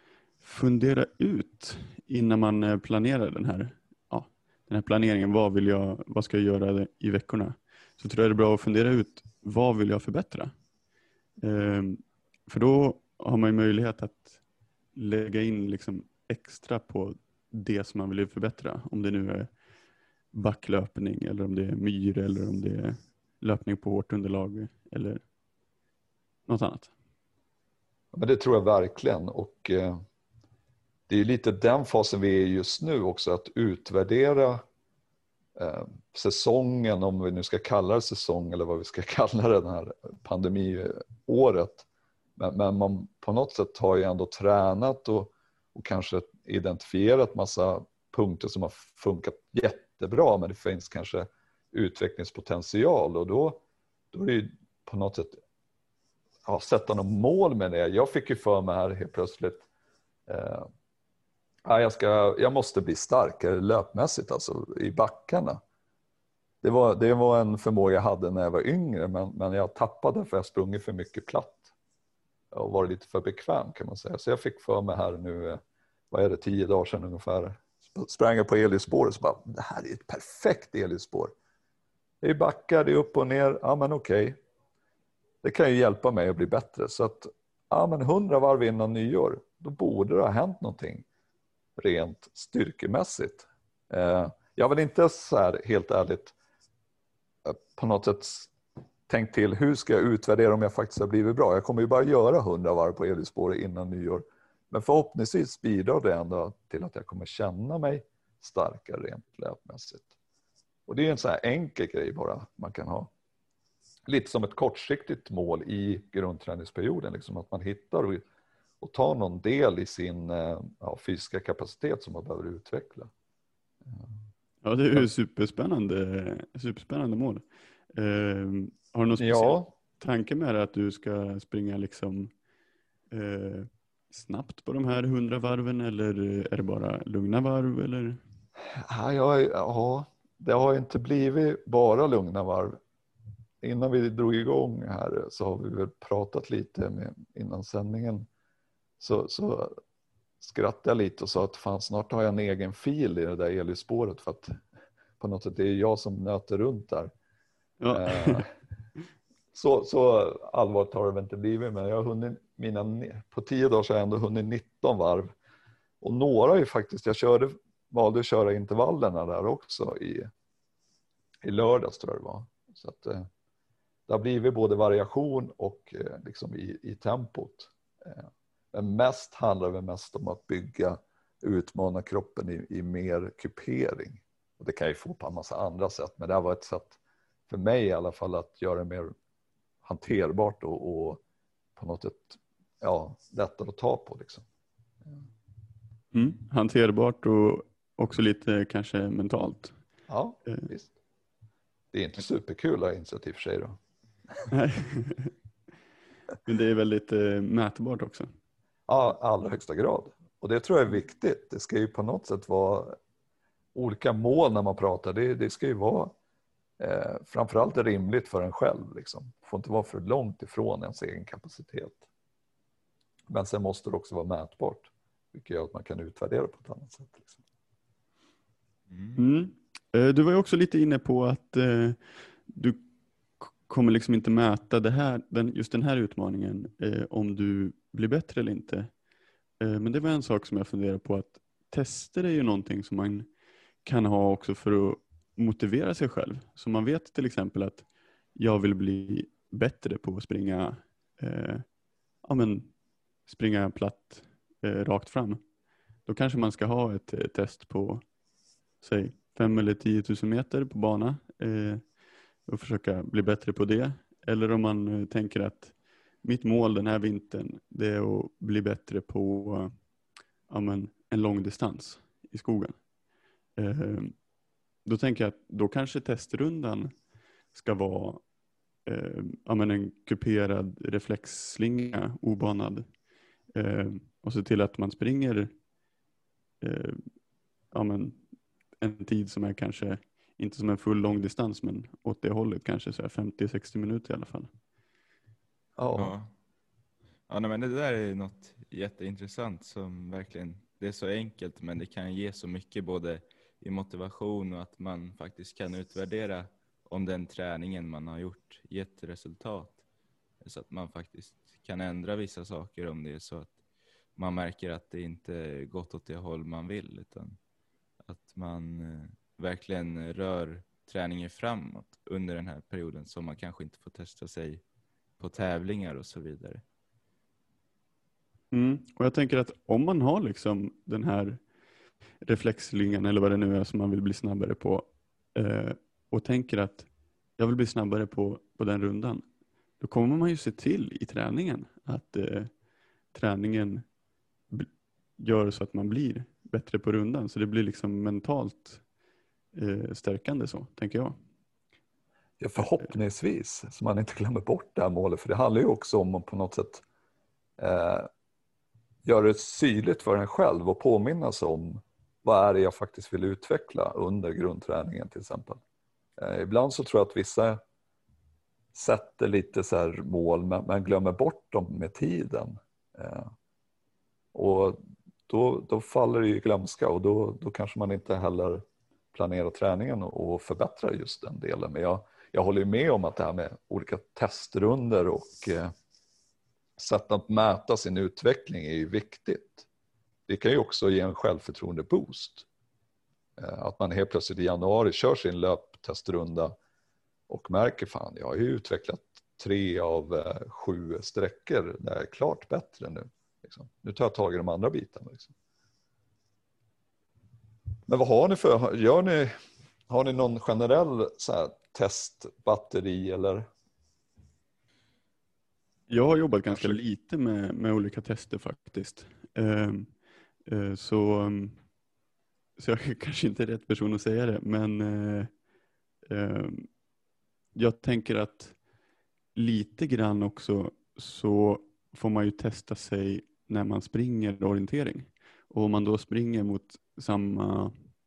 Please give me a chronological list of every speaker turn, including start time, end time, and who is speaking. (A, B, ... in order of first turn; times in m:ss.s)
0:00.4-0:10.5 A
0:11.4-0:14.4 A
0:15.0-0:19.5 A
0:20.3-0:25.2 A
0:26.5-0:26.9 A
0:28.1-0:30.0 B
0:31.1-0:34.6 B
0:35.6-0:41.9 B
0:42.4-0:55.4 B
0:56.5-0:59.6 B
1:00.3-1:00.7 B
1:01.7-1:05.6 B
1:06.6-1:11.7 B
1:12.5-1:21.3 B
1:22.2-1:24.4 B
1:25.4-1:31.0 B
1:31.8-1:36.3 B
1:37.4-1:38.5 B
1:39.1-1:50.1 B
1:50.9-1:53.1 B
1:54.1-1:58.2 B
1:58.8-2:03.1 B
2:03.9-2:04.1 B
2:04.6-2:12.3 A
2:09.2-2:09.7 B
2:13.1-2:18.2 A
2:18.8-2:22.8 B
2:23.6-2:28.3 B
2:29.0-2:29.8 B
2:30.4-2:34.6 B
2:35.2-2:37.1 B
2:37.8-2:38.5 A
2:37.9-2:38.5 B
2:39.5-2:45.3 B
2:46.0-2:50.3 B
2:51.4-2:53.3 B
2:54.1-3:07.0 B
3:07.5-3:09.2 B
3:09.8-3:11.2 B
3:11.8-3:14.5 B
3:16.1-3:19.8 A
3:20.1-3:20.9 B
3:21.9-3:23.8 B
3:24.5-3:25.3 A
3:26.4-3:28.3 A
3:28.9-3:33.0 B
3:33.8-3:36.1 B
3:36.8-3:42.0 B
3:43.3-3:47.4 B
3:48.9-3:49.2 C
3:49.2-3:52.8 A
3:53.4-3:58.9 A
3:59.6-4:03.3 A
4:03.8-4:11.7 A
4:12.2-4:12.7 A
4:13.3-4:15.4 A
4:16.1-4:18.0 A
4:18.8-4:21.8 A
4:22.5-4:29.8 A
4:30.5-4:32.8 A
4:33.6-4:34.2 A
4:34.8-4:37.0 A
4:37.5-4:38.2 A
4:38.8-4:42.9 A
4:43.6-4:45.5 A
4:46.6-4:47.0 A
4:47.7-4:48.2 A
4:48.8-4:54.5 A
4:55.8-4:56.2 B
4:56.0-4:56.3 C
4:57.3-5:09.8 C
5:10.4-5:13.6 C
5:14.2-5:17.4 C
5:18.0-5:24.6 C
5:25.2-5:26.6 C
5:28.5-5:31.4 A
5:32.2-5:39.3 A
5:39.8-5:42.5 A
5:43.1-5:43.9 A
5:44.5-5:48.8 A
5:49.5-5:51.2 A
5:52.4-5:56.8 B
5:57.6-5:58.1 B
5:59.0-6:05.6 B
6:06.2-6:07.6 B
6:08.7-6:13.3 B
6:14.3-6:25.7 B
6:26.8-6:29.7 B
6:30.3-6:32.5 B
6:33.4-6:36.6 B
6:37.3-6:45.3 B
6:47.9-6:49.3 B
6:49.9-6:53.5 B
6:55.9-6:59.9 A
6:56.5-6:56.8 B
7:00.5-7:01.6 A
7:02.6-7:05.3 A
7:06.1-7:06.7 A
7:07.6-7:08.6 A
7:09.4-7:17.9 A